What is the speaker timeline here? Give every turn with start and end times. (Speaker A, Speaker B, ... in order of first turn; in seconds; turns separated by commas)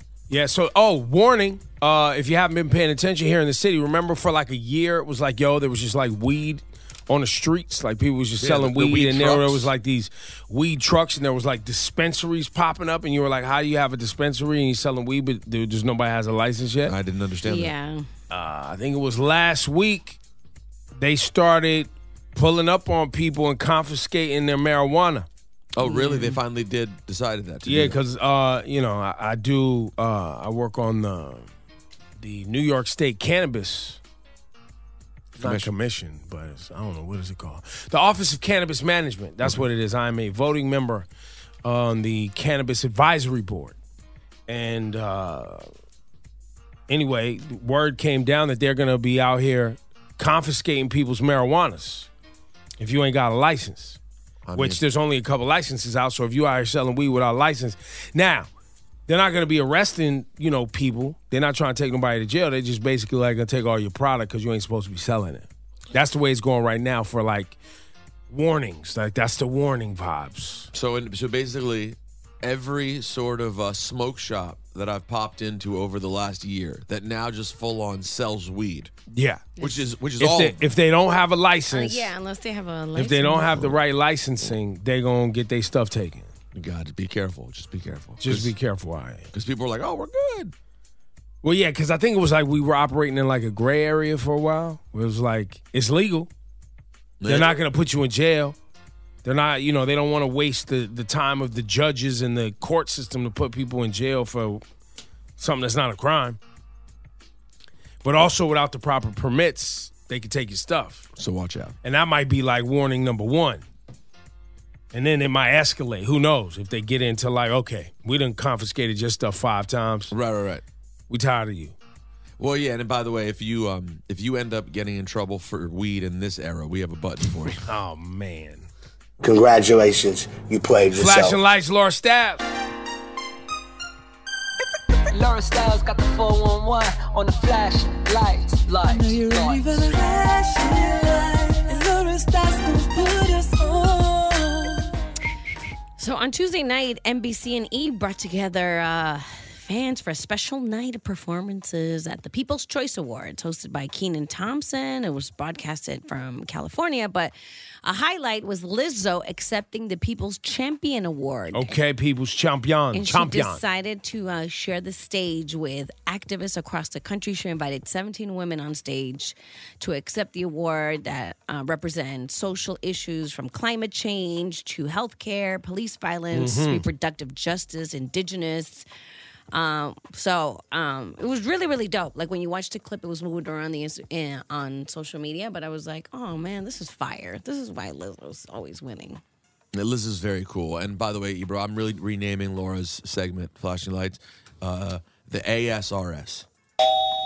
Speaker A: 0.3-16.9, Speaker B: 8.4-9.7, Speaker B: 16.9-17.7, Speaker C: 17.4-18.1, Speaker A: 18.3-20.2, Speaker A: 21.0-25.3, Speaker B: 25.7-28.0, Speaker C: 25.8-26.4, Speaker A: 27.6-31.5, Speaker A: 32.2-34.0, Speaker B: 35.4-35.7, Speaker A: 35.4-41.1, Speaker A: 41.6-43.8, Speaker A: 44.5-45.7, Speaker A: 46.9-52.1, Speaker A: 52.8-54.0, Speaker B: 54.5-54.8, Speaker A: 54.5-58.5, Speaker A: 59.1-67.6, Speaker A: 68.3-70.7, Speaker B: 70.7-78.9, Speaker A: 79.1-79.6, Speaker C: 79.6-79.8, Speaker B: 79.6-80.7, Speaker A: 80.2-82.1, Speaker C: 81.7-83.7, Speaker A: 83.0-86.3, Speaker B: 86.5-88.5, Speaker A: 88.2-89.3, Speaker B: 89.3-90.5, Speaker A: 91.4-96.3, Speaker B: 97.2-97.6, Speaker A: 97.3-98.6, Speaker A: 99.2-104.6, Speaker A: 105.4-106.4, Speaker A: 108.0-111.1, Speaker B: 111.2-111.8, Speaker A: 111.8-113.6, Speaker A: 114.9-120.1, Speaker B: 120.1-120.6, Speaker A: 121.1-121.8, Speaker B: 122.4-127.6, Speaker A: 127.6-128.7, Speaker D: 129.2-131.4, Speaker A: 131.0-132.4, Speaker E: 135.1-144.9, Speaker C: 146.0-161.8, Speaker A: 161.5-163.6, Speaker C: 162.9-178.9, Speaker A: 176.3-176.8, Speaker C: 179.5-189.2, Speaker B: 189.7-196.5